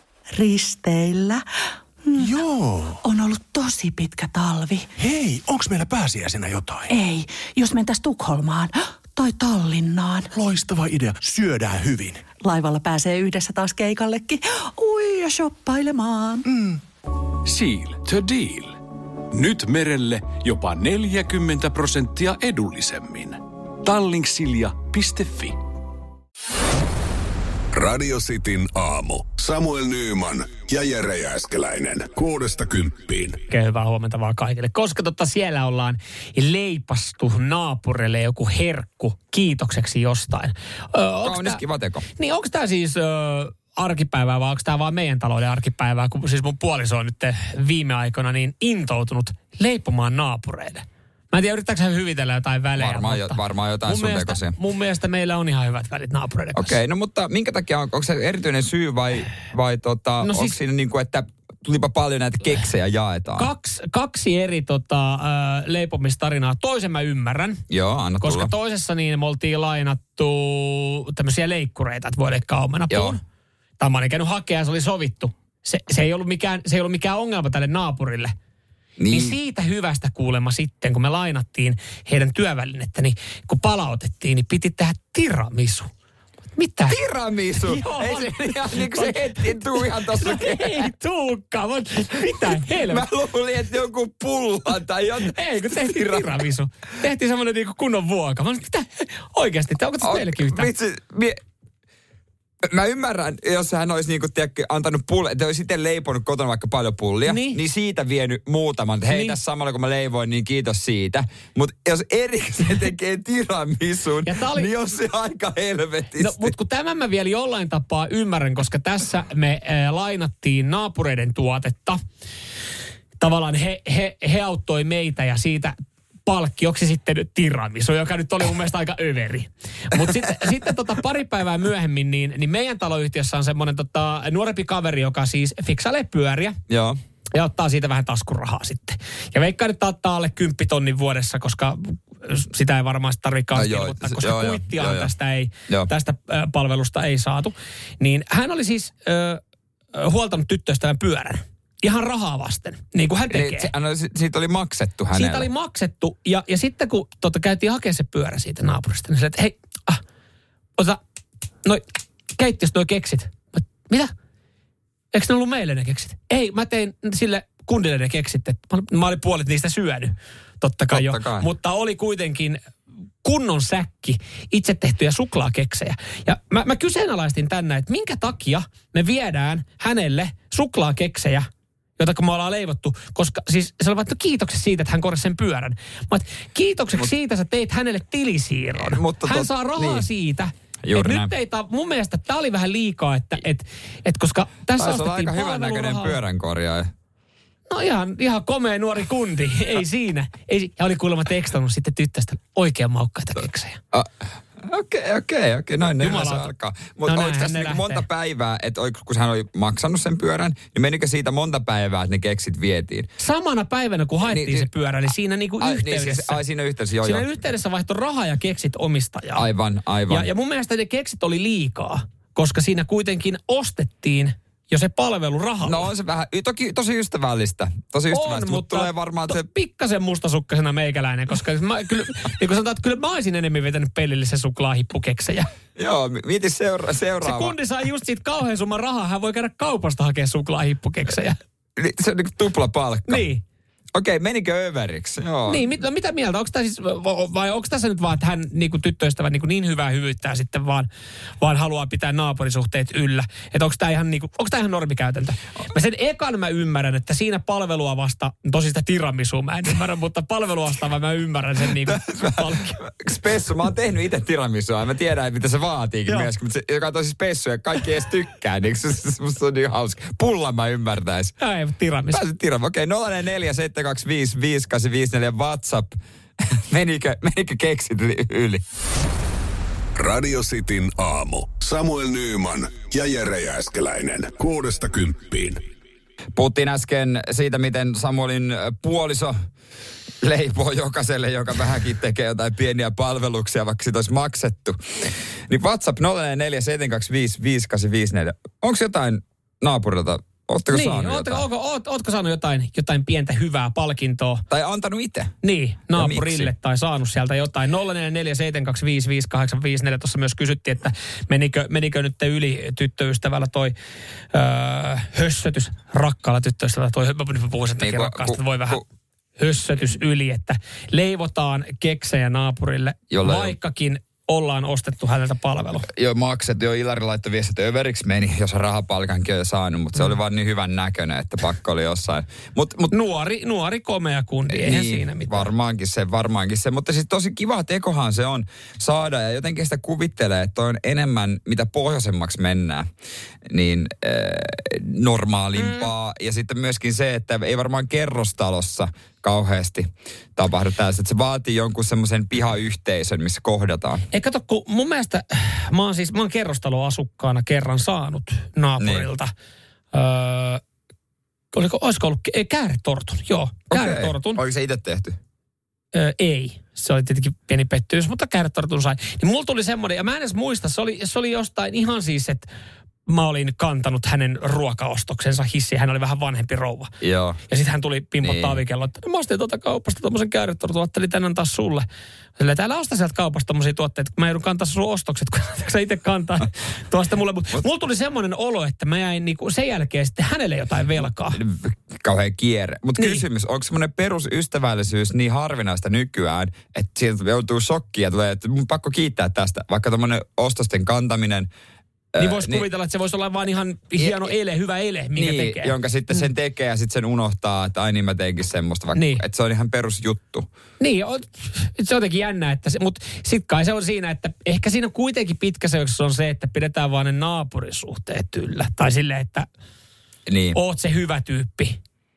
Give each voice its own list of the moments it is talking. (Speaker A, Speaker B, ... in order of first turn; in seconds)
Speaker A: 0.3-1.4, 2.1-2.4, 3.0-4.9, 6.9-10.3, 12.4-16.4
Speaker B: 2.2-3.0, 5.0-6.9, 10.3-12.2, 16.5-16.8
Speaker C: 17.4-18.8, 19.3-25.6
Speaker D: 27.7-33.4, 280.0-285.6
Speaker E: 33.5-41.6, 42.2-56.8, 60.2-60.6, 63.4-67.6, 68.2-73.2, 73.8-78.3, 79.1-85.9, 86.5-87.0, 87.6-93.1, 95.2-100.7, 107.3-107.6, 109.1-109.4, 114.2-114.7, 116.2-122.0, 123.2-125.7, 126.3-136.6, 137.3-149.4, 149.9-153.7, 155.1-160.0, 162.4-164.1, 165.1-172.6, 173.2-181.5, 182.0-196.2, 197.7-203.8, 206.0-206.5, 207.1-208.0, 213.2-216.4, 217.0-219.5, 220.1-225.9, 228.1-235.5, 237.2-241.4, 243.1-243.4, 245.5-250.9, 251.4-262.8, 271.4-272.2, 300.7-304.4, 305.4-313.7, 314.3-318.8, 319.4-325.9, 332.9-335.5, 354.1-359.3, 359.9-360.6, 361.5-364.4, 365.9-372.5, 373.1-376.9, 377.5-381.9, 382.4-391.4, 393.0-393.2, 402.2-405.7, 409.0-409.2, 410.8-419.5, 420.5-421.8
Speaker F: 41.2-42.1, 52.8-54.6, 56.5-63.5, 67.7-68.5, 72.9-73.2, 79.0-79.4, 86.9-90.9, 92.4-96.3, 100.0-101.4, 102.7-116.5, 136.7-137.0, 143.5-145.1, 153.3-155.5, 170.9-171.5, 188.8-190.1, 190.8-191.3, 194.8-196.9, 203.9-213.1, 214.2-214.7, 215.6-217.4, 219.3-220.3, 225.6-229.4, 235.8-237.6, 241.8-243.3, 244.0-245.7, 261.9-271.4, 272.1-276.0, 276.7-278.6, 286.4-289.4, 290.2-294.8, 295.5-301.4, 304.5-305.3, 305.9-306.5, 317.8-318.8, 323.1-323.6, 325.9-332.9, 334.5-342.9, 343.5-354.1, 358.8-359.1, 363.7-365.2, 377.0-377.4, 378.2-378.6, 391.3-401.5, 402.1-402.7, 404.0-404.3, 405.2-410.5, 420.3-420.6